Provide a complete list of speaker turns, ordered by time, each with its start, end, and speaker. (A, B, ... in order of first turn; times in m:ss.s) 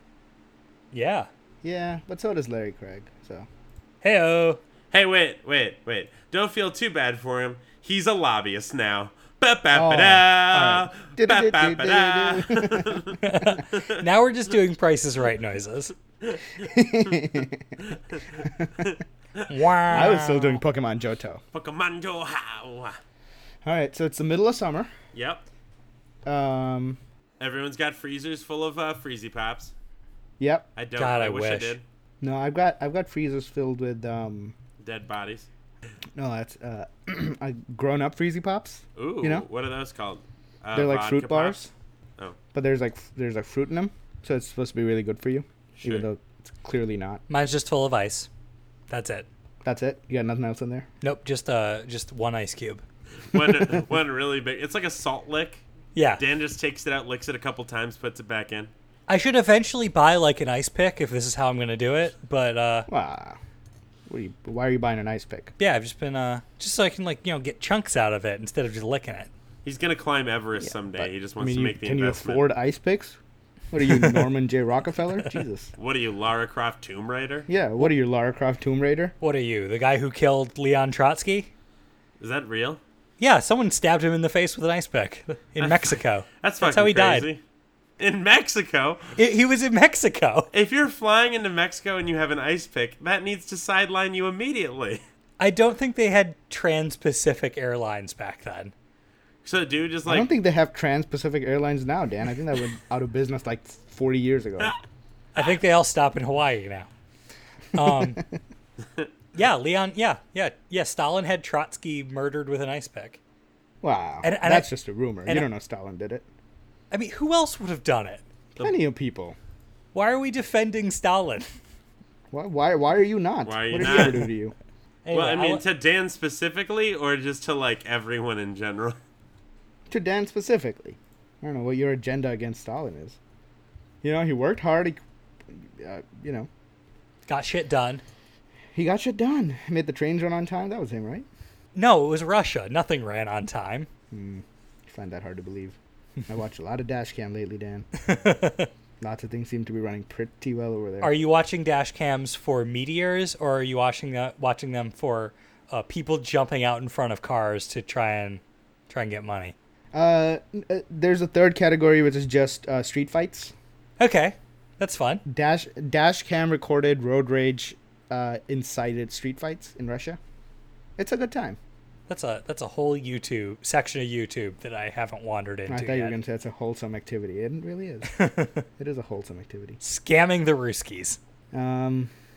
0:00.9-0:01.3 A
0:01.6-0:03.5 B
0:04.0-0:04.6 A
0:04.9-0:13.2 C
0:09.7-0:13.2 B
0:13.2-0:15.9 A
0:13.7-0:14.0 C
0:16.2-0:17.3 C
0:16.6-0:17.8 B
0:17.8-0:20.1 C
0:18.5-0:18.9 B
0:19.5-0:20.6 A
0:19.9-0:21.4 B
0:21.5-0:23.0 C
0:23.6-0:24.9 B
0:25.1-0:25.4 C
0:26.3-0:27.0 B
0:27.4-0:29.7 C
0:30.4-0:30.7 B
0:30.8-0:31.8 C
0:31.0-0:31.8 A
0:32.2-0:34.6 B
0:34.8-0:35.5 C
0:36.2-0:39.5 B
0:39.0-0:42.4 C
0:40.7-0:41.7 B
0:42.5-0:47.2 B
0:45.8-0:46.1 C
0:47.3-0:48.3 A
0:48.9-0:49.3 A
0:49.6-0:50.9 B
0:51.0-0:52.8 A
0:53.2-0:55.6 C
0:53.3-0:53.8 B
0:55.9-0:56.2 A
0:56.2-0:58.7 C
0:59.1-1:02.9 A
1:02.9-1:03.4 B
1:04.1-1:05.5 B
1:05.6-1:09.3 A
1:09.6-1:12.5 C
1:10.6-1:13.2 B
1:13.7-1:15.7 B
1:15.8-1:17.5 C
1:17.5-1:19.2 B
1:19.2-1:21.5 A
1:22.2-1:22.8 C
1:23.2-1:27.3 A
1:25.6-1:27.4 C
1:28.0-1:29.1 C
1:29.2-1:30.5 A
1:30.5-1:35.0 C
1:35.4-1:38.7 A
1:39.4-1:40.3 C
1:40.0-1:44.7 B
1:45.4-1:46.9 A
1:47.7-1:48.2 A
1:49.3-1:53.2 A
1:53.8-1:56.3 B
1:54.2-1:54.7 A
1:56.9-1:58.2 A
1:58.6-1:59.4 B
1:59.9-2:01.5 A
2:02.3-2:04.5 B
2:03.4-2:04.3 C
2:03.8-2:04.1 A
2:05.0-2:05.6 A
2:05.1-2:09.0 C
2:09.9-2:13.2 B
2:14.0-2:16.5 B
2:17.3-2:18.0 A
2:18.7-2:21.3 B
2:21.8-2:23.9 A
2:24.1-2:25.8 B
2:26.3-2:27.9 B
2:28.0-2:28.7 A
2:29.0-2:31.2 B
2:31.0-2:39.6 A
2:39.9-2:43.6 B
2:44.0-2:45.2 A
2:45.2-2:50.2 B
2:51.0-2:51.6 B
2:52.1-2:56.2 A
2:55.7-2:59.8 B
2:58.1-2:58.6 A
2:59.8-3:01.2 A
3:01.5-3:02.1 B